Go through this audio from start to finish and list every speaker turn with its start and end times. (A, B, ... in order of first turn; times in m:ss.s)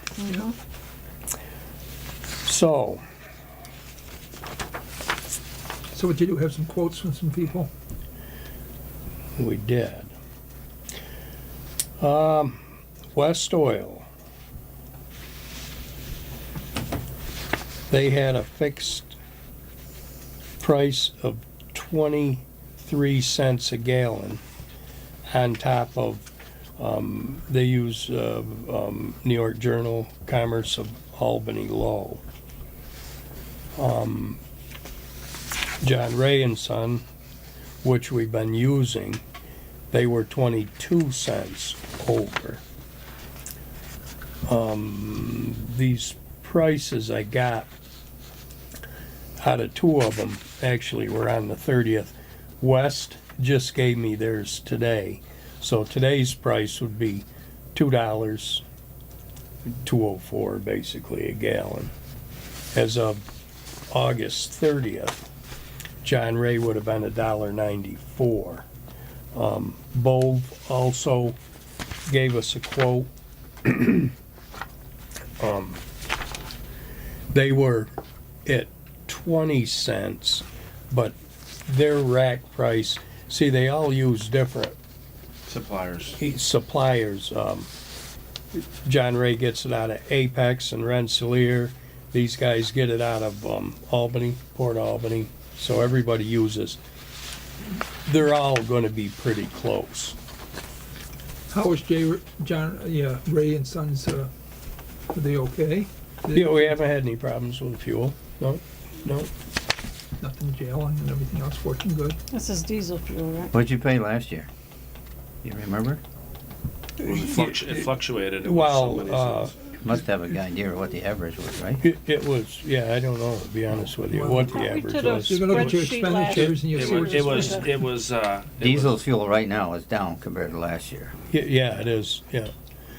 0:00.2-0:00.5 A
0:02.4-0:03.0 B
0:05.9-0:07.7 C
0:09.4-0:10.1 B
0:12.0-0:12.6 B
0:13.1-0:14.1 B
0:17.9-0:19.2 B
0:20.6-0:24.4 B
0:25.2-0:26.3 B
0:26.8-0:32.2 B
0:33.8-0:34.4 B
0:35.8-0:37.0 B
0:37.8-0:39.2 B
0:39.9-0:42.6 B
0:44.4-0:47.7 B
0:49.4-0:58.6 B
0:59.8-1:01.9 B
1:02.7-1:03.2 B
1:03.9-1:05.3 B
1:06.0-1:08.7 B
1:09.3-1:11.4 B
1:12.1-1:13.1 B
1:13.6-1:14.1 B
1:15.4-1:15.8 B
1:17.3-1:17.9 B
1:18.4-1:21.1 B
1:21.7-1:24.8 B
1:25.5-1:26.2 D
1:26.2-1:27.7 B
1:28.6-1:36.8 B
1:38.0-1:40.2 B
1:41.5-1:44.3 C
1:45.1-1:46.8 C
1:46.3-1:49.3 B
1:50.2-1:52.2 C
1:52.3-1:53.5 A
1:53.5-1:54.5 E
1:55.4-1:56.0 E
1:57.0-1:57.9 B
1:57.0-1:59.5 D
1:58.4-1:59.5 B
1:59.8-2:01.8 E
2:01.8-2:05.7 B
2:04.1-2:04.6 C
2:04.5-2:07.7 A
2:05.3-2:07.9 C
2:06.6-2:09.0 D
2:08.6-2:11.1 E
2:11.3-2:12.5 B